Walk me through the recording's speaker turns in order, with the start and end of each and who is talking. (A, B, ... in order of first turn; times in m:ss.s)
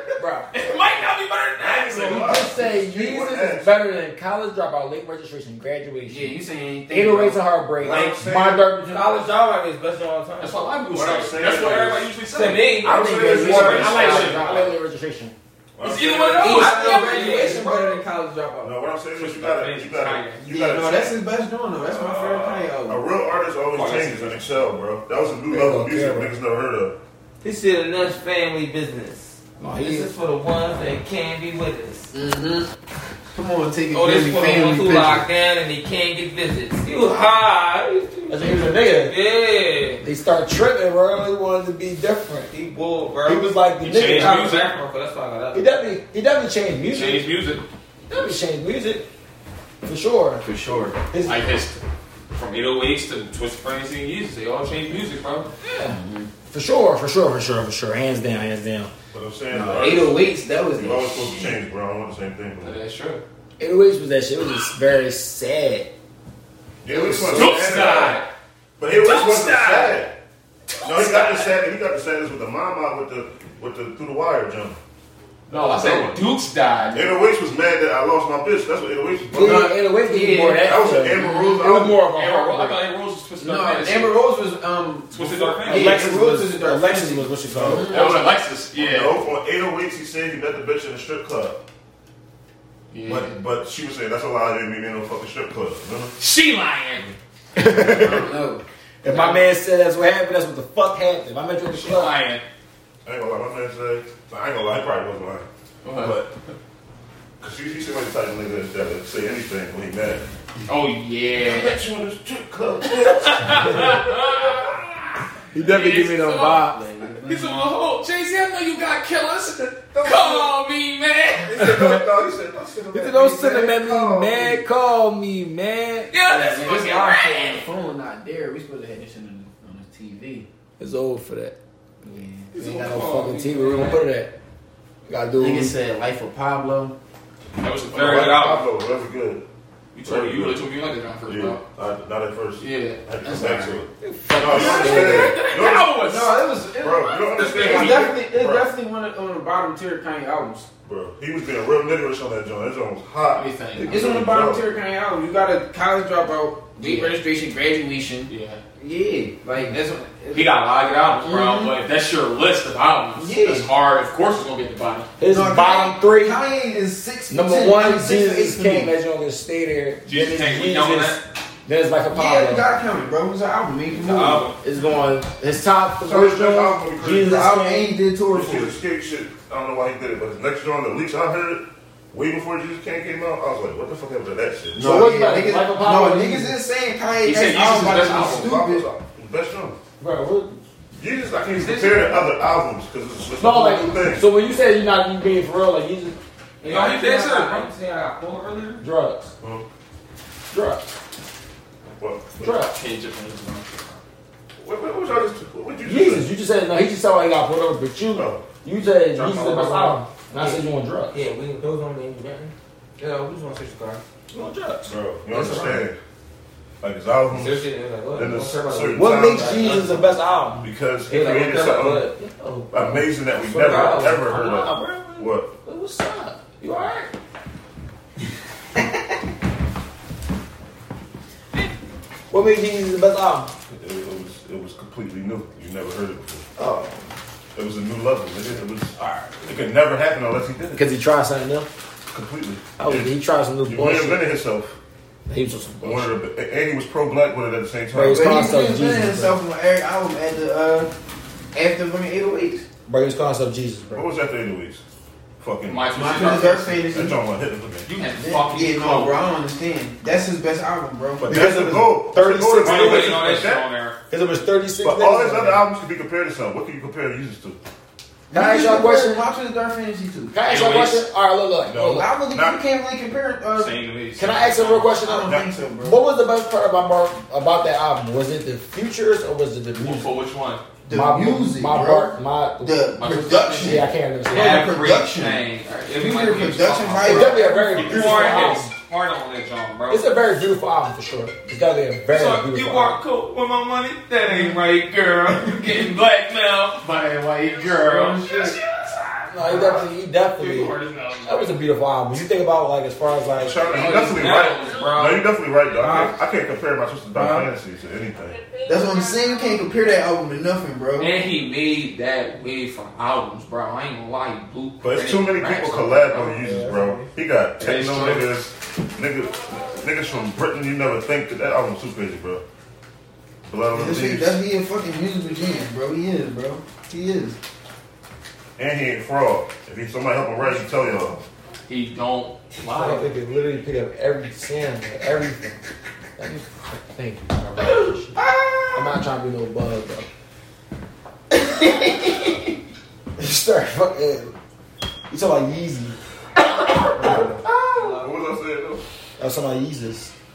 0:00.2-0:00.5 A
0:00.5-0:02.5 B
0:01.6-0:03.7 C
0:02.0-0:06.4 D
0:06.1-0:07.4 A
0:06.9-0:09.2 D
0:07.8-0:08.6 C
0:08.8-0:10.6 E
0:10.4-0:14.7 B
0:10.9-0:12.1 C
0:12.3-0:14.3 E
0:12.7-0:14.2 C
0:12.9-0:13.8 A
0:13.0-0:15.3 D
0:15.8-0:16.8 C
0:15.8-0:17.8 B
0:16.4-0:18.7 A
0:16.5-0:17.7 E
0:18.6-0:21.2 C
0:19.2-0:20.4 B
0:20.4-0:23.0 A
0:21.9-0:27.0 C
0:23.7-0:24.5 B
0:25.5-0:26.3 D
0:27.4-0:32.1 E
0:29.6-0:30.1 D
0:32.1-0:32.7 A
0:33.3-0:35.2 A
0:33.9-0:40.0 E
0:38.3-0:39.2 D
0:40.0-0:42.5 D
0:42.5-0:45.7 E
0:43.2-0:44.6 D
0:43.8-0:44.7 B
0:45.5-0:47.2 D
0:46.9-0:47.6 B
0:48.1-0:49.1 D
0:49.8-0:50.4 D
0:50.4-0:51.0 A
0:51.1-0:51.6 D
0:51.2-0:51.8 B
0:52.3-0:55.5 B
0:55.6-0:56.0 D
0:55.8-0:56.3 A
0:56.5-0:58.9 D
0:59.1-1:02.8 C
0:59.5-1:01.6 A
1:02.6-1:03.2 B
1:03.6-1:05.9 D
1:06.8-1:08.2 C
1:06.9-1:07.7 D
1:07.3-1:08.3 B
1:08.8-1:10.2 C
1:08.9-1:10.0 B
1:10.8-1:11.5 B
1:10.8-1:14.8 C
1:15.5-1:17.2 B
1:15.6-1:16.0 C
1:16.9-1:19.7 C
1:19.3-1:22.8 D
1:19.3-1:21.6 A
1:20.6-1:22.1 C
1:22.0-1:24.2 B
1:23.4-1:28.2 A
1:25.1-1:26.0 B
1:25.6-1:28.0 D
1:27.6-1:27.8 C
1:27.8-1:29.2 B
1:28.7-1:31.6 C
1:32.9-1:33.4 B
1:33.0-1:36.2 C
1:36.2-1:37.1 B
1:37.6-1:38.3 D
1:37.7-1:38.6 A
1:39.0-1:42.2 D
1:39.1-1:39.4 B
1:41.7-1:42.4 B
1:43.0-1:46.3 C
1:45.8-1:46.2 B
1:47.4-1:50.2 C
1:50.7-1:51.8 B
1:51.4-1:54.7 C
1:52.9-1:54.9 B
1:55.5-1:56.8 D
1:55.5-2:01.7 B
1:56.6-1:57.6 A
1:59.9-2:00.5 C
2:01.4-2:04.6 C
2:01.6-2:02.0 D
2:02.9-2:06.1 D
2:06.1-2:07.6 B
2:06.2-2:10.5 A
2:10.8-2:14.3 D
2:12.0-2:12.5 A
2:12.5-2:14.0 B
2:15.1-2:15.7 D
2:15.4-2:17.0 A
2:17.6-2:18.6 B
2:17.9-2:19.4 C
2:19.9-2:21.6 B
2:20.0-2:20.6 C
2:21.2-2:26.0 C
2:22.6-2:23.0 B
2:23.2-2:23.8 A
2:24.0-2:25.4 D
2:24.3-2:26.5 B
2:24.5-2:25.1 A
2:26.0-2:30.7 A
2:26.7-2:28.7 C
2:27.2-2:28.2 B
2:30.8-2:34.7 C
2:33.3-2:34.1 B
2:33.8-2:40.6 A
2:36.8-2:37.2 B
2:38.3-2:38.6 B
2:40.3-2:45.1 B
2:41.2-2:41.8 A
2:43.2-2:43.7 A
2:45.2-2:46.4 D
2:45.3-2:48.9 A
2:47.3-2:52.7 D
2:50.1-2:51.2 B
2:52.1-2:54.5 A
2:53.9-2:54.6 B
2:54.6-2:57.9 D
2:56.0-2:57.4 C
2:57.2-2:58.8 A
2:58.3-3:05.0 C
3:04.7-3:08.9 A
3:04.8-3:06.6 D
3:07.2-3:08.6 B
3:08.2-3:09.8 C
3:10.0-3:10.6 D
3:11.0-3:14.2 C
3:11.6-3:12.2 E
3:13.4-3:16.2 D
3:16.6-3:18.8 E
3:16.6-3:17.7 B
3:18.8-3:19.3 D
3:20.5-3:20.8 D
3:22.0-3:22.6 C
3:22.4-3:22.7 D
3:22.6-3:24.0 B
3:24.6-3:26.3 C
3:25.8-3:31.2 D
3:28.1-3:28.4 C
3:29.2-3:34.0 E
3:34.3-3:34.9 D
3:34.9-3:36.0 C
3:35.3-3:35.8 E
3:36.8-3:39.9 C
3:37.3-3:40.1 E
3:38.9-3:40.7 D
3:40.6-3:42.1 C
3:41.1-3:43.0 E
3:42.7-3:45.5 C
3:43.4-3:44.2 D
3:43.5-3:47.0 E
3:45.7-3:47.1 D
3:52.3-3:53.5 D
3:53.7-3:56.5 C
3:56.6-3:57.1 D
3:57.6-4:00.8 C
4:00.8-4:01.7 D
4:02.1-4:03.1 C
4:02.8-4:04.2 D
4:03.6-4:04.8 C
4:05.3-4:06.1 D
4:05.8-4:08.4 C
4:07.9-4:09.4 D
4:08.1-4:10.9 A
4:11.5-4:12.6 A
4:12.9-4:14.0 D
4:13.9-4:14.8 C
4:15.4-4:16.3 C
4:15.6-4:16.9 B
4:15.9-4:17.2 A
4:16.9-4:17.9 C
4:17.9-4:19.2 B
4:18.2-4:21.3 A
4:21.2-4:23.6 C
4:21.3-4:23.3 D
4:22.6-4:24.0 B
4:24.1-4:25.6 D
4:24.8-4:27.6 C
4:28.3-4:29.2 D
4:28.3-4:30.3 A
4:30.3-4:32.1 D
4:30.4-4:31.0 B
4:31.6-4:32.6 C
4:31.9-4:33.7 A
4:33.6-4:34.9 B
4:34.2-4:40.1 D
4:35.0-4:36.0 A
4:35.2-4:35.6 C
4:39.8-4:40.6 B
4:40.9-4:47.5 A
4:40.9-4:44.7 D
4:43.0-4:50.1 B
4:47.0-4:48.7 D
4:47.7-4:48.6 E
4:49.9-4:53.0 D
4:52.1-4:58.3 E
4:55.6-4:55.9 B
4:57.5-4:59.0 B
4:57.6-4:58.6 A
4:59.3-5:03.6 D
5:00.4-5:01.5 B
5:00.5-5:01.1 E
5:03.4-5:08.4 C
5:03.7-5:05.2 B
5:04.7-5:05.0 E
5:05.8-5:06.1 A
5:07.1-5:07.5 A
5:08.6-5:11.1 A
5:11.0-5:16.4 B
5:14.8-5:22.4 C
5:16.4-5:17.1 D
5:17.6-5:18.3 B
5:23.4-5:24.4 C
5:23.7-5:27.4 A
5:28.6-5:31.2 C
5:31.7-5:33.0 B
5:32.6-5:35.6 D
5:36.2-5:38.2 D
5:38.2-5:38.9 A
5:38.8-5:40.1 D
5:41.3-5:42.3 A
5:43.2-5:44.3 D
5:45.1-5:46.0 D
5:46.9-5:47.4 D
5:47.0-5:47.4 C
5:47.6-5:48.0 A
5:48.0-5:48.8 C
5:49.2-5:50.1 D